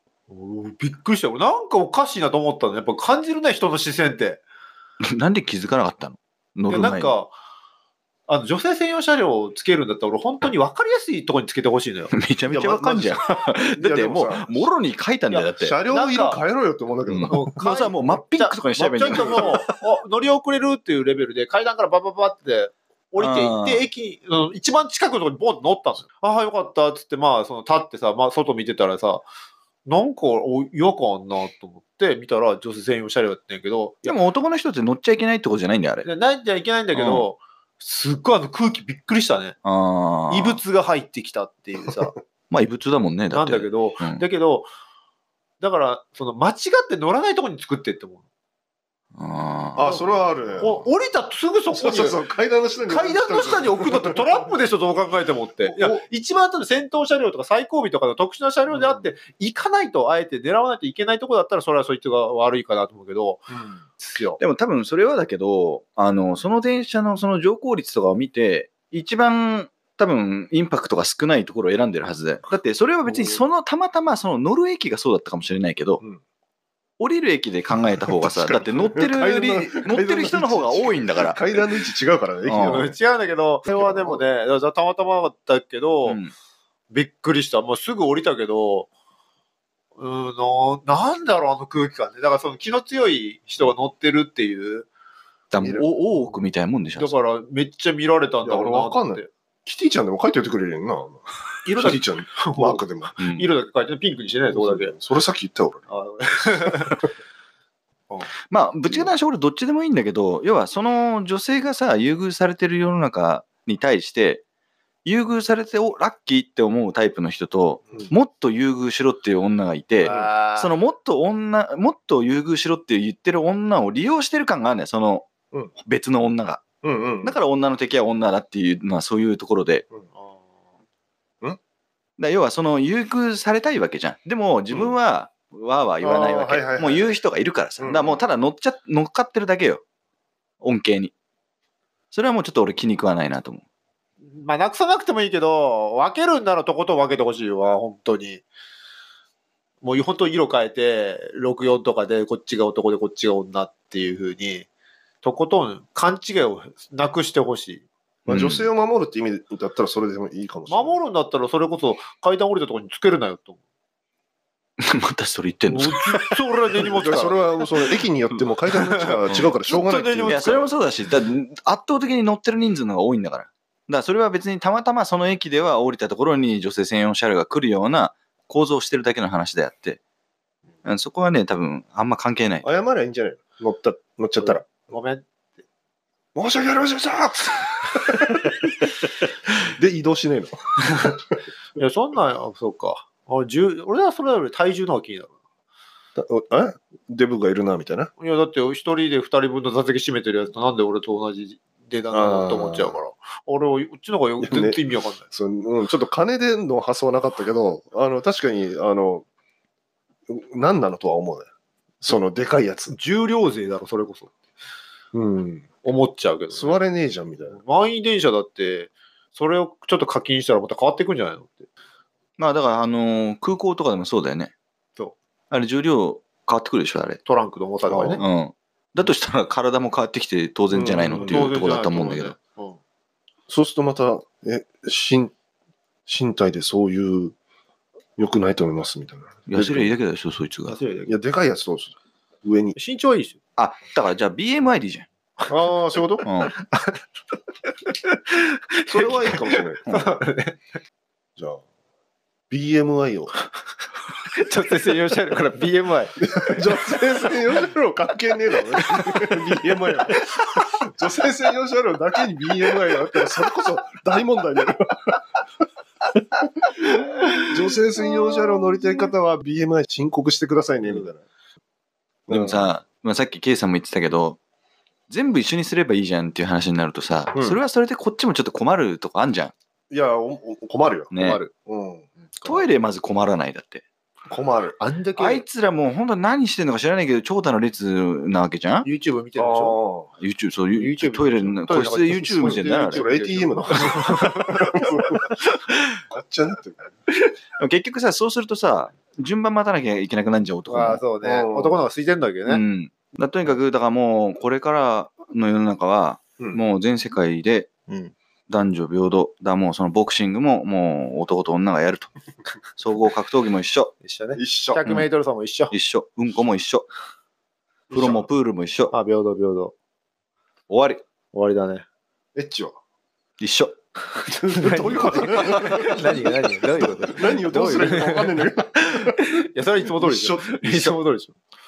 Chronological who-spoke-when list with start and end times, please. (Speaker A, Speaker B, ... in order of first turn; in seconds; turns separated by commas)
Speaker A: 0.3-4.4, Speaker B: 5.0-7.1, Speaker A: 6.7-7.3, Speaker A: 8.3-12.1, Speaker B: 12.1-15.7, Speaker C: 12.5-14.7, Speaker A: 15.3-16.4, Speaker C: 15.6-17.5, Speaker B: 17.1-19.6, Speaker A: 17.3-29.2, Speaker C: 19.1-19.7, Speaker B: 23.2-23.8, Speaker A: 29.9-34.2, Speaker B: 34.0-36.1, Speaker A: 36.0-39.5, Speaker B: 36.9-37.3, Speaker B: 39.6-40.6, Speaker A: 40.3-42.1, Speaker B: 42.5-44.2, Speaker A: 43.3-44.7, Speaker A: 45.6-48.2, Speaker B: 49.1-49.9, Speaker C: 49.8-50.9, Speaker A: 49.8-52.2, Speaker C: 51.7-54.3, Speaker A: 52.8-63.4, Speaker C: 55.6-56.0, Speaker C: 58.7-59.1, Speaker C: 63.5-63.8, Speaker A: 64.0-64.4, Speaker B: 64.4-76.0, Speaker A: 73.0-73.4, Speaker B: 77.0-81.5, Speaker C: 78.2-82.9, Speaker B: 82.4-82.9, Speaker A: 82.6-86.2, Speaker C: 83.7-84.2, Speaker B: 86.0-86.3, Speaker A: 86.9-88.9, Speaker A: 90.0-94.9, Speaker B: 95.5-97.2, Speaker C: 95.6-95.8, Speaker A: 97.0-99.3, Speaker C: 98.4-103.1, Speaker A: 101.6-104.9, Speaker B: 103.2-103.5, Speaker C: 104.5-105.9, Speaker A: 105.9-107.0, Speaker B: 108.5-114.4, Speaker B: 115.0-126.6, Speaker A: 120.0-120.8, Speaker C: 120.0-120.3, Speaker C: 126.8-127.4, Speaker B: 127.2-129.8, Speaker A: 130.1-130.5, Speaker B: 132.2-139.8, Speaker C: 134.7-134.9, Speaker C: 136.0-137.2, Speaker C: 137.8-138.3, Speaker B: 140.6-141.1, Speaker B: 142.1-143.6, Speaker A: 144.3-148.4, Speaker A: 149.8-154.7, Speaker A: 155.2-157.8, Speaker C: 158.2-161.0, Speaker B: 158.3-158.7, Speaker A: 160.7-163.6, Speaker B: 164.8-166.2, Speaker A: 165.7-167.7, Speaker C: 166.8-170.4, Speaker A: 168.9-170.7, Speaker B: 170.2-180.0, Speaker B: 180.8-182.7, Speaker C: 182.6-184.7, Speaker A: 184.4-185.3, Speaker C: 186.3-188.6, Speaker C: 189.6-191.2, Speaker A: 191.8-195.3, Speaker C: 196.2-198.1, Speaker A: 198.2-205.2, Speaker C: 202.1-203.0, Speaker C: 204.4-209.2, Speaker C: 210.3-211.5, Speaker C: 212.0-212.9, Speaker A: 212.9-214.3, Speaker C: 215.1-215.7, Speaker A: 215.8-216.8, Speaker C: 216.5-217.6, Speaker A: 217.5-221.7, Speaker B: 222.4-224.5, Speaker B: 225.5-227.2, Speaker A: 227.2-228.2, Speaker C: 227.9-228.2, Speaker B: 228.2-232.3, Speaker C: 230.7-231.5, Speaker A: 231.1-232.8, Speaker C: 233.5-235.3, Speaker C: 236.1-237.3, Speaker C: 238.2-239.9, Speaker B: 239.5-240.8, Speaker A: 240.7-241.2, Speaker C: 241.1-242.8, Speaker A: 242.7-243.4, Speaker B: 243.6-245.1, Speaker A: 245.4-247.0, Speaker C: 245.5-246.2, Speaker B: 246.2-246.5, Speaker A: 247.8-250.6, Speaker C: 248.9-249.8, Speaker C: 251.4-251.6, Speaker C: 252.5-253.3, Speaker A: 254.2-256.8, Speaker C: 256.2-265.2, Speaker A: 258.9-259.4, Speaker C: 267.5-271.2, Speaker C: 272.3-272.7, Speaker B: 272.3-274.4, Speaker B: 275.1-279.5, Speaker C: 277.3-277.6, Speaker C: 279.9-282.1, Speaker B: 281.1-281.4, Speaker A: 282.3-282.6, Speaker B: 282.4-283.8, Speaker C: 284.3-284.8, Speaker A: 284.8-285.4, Speaker B: 285.1-288.9, Speaker A: 288.8-289.8, Speaker C: 289.3-290.1, Speaker B: 290.2-293.1, Speaker A: 290.7-294.6, Speaker C: 292.9-295.3, Speaker C: 296.1-296.9, Speaker B: 297.5-301.0, Speaker A: 300.7-302.6, Speaker C: 301.2-301.8, Speaker B: 302.5-307.7, Speaker B: 308.5-312.1, Speaker B: 312.7-313.9, Speaker A: 314.0-315.7, Speaker C: 314.3-314.8, Speaker B: 315.7-316.9, Speaker C: 317.9-318.2, Speaker B: 317.9-318.9, Speaker A: 318.9-319.7, Speaker B: 320.7-321.0, Speaker A: 321.3-321.8, Speaker C: 322.3-322.7, Speaker B: 323.4-323.7, Speaker A: 324.3-331.4, Speaker C: 324.3-329.0, Speaker C: 329.8-331.0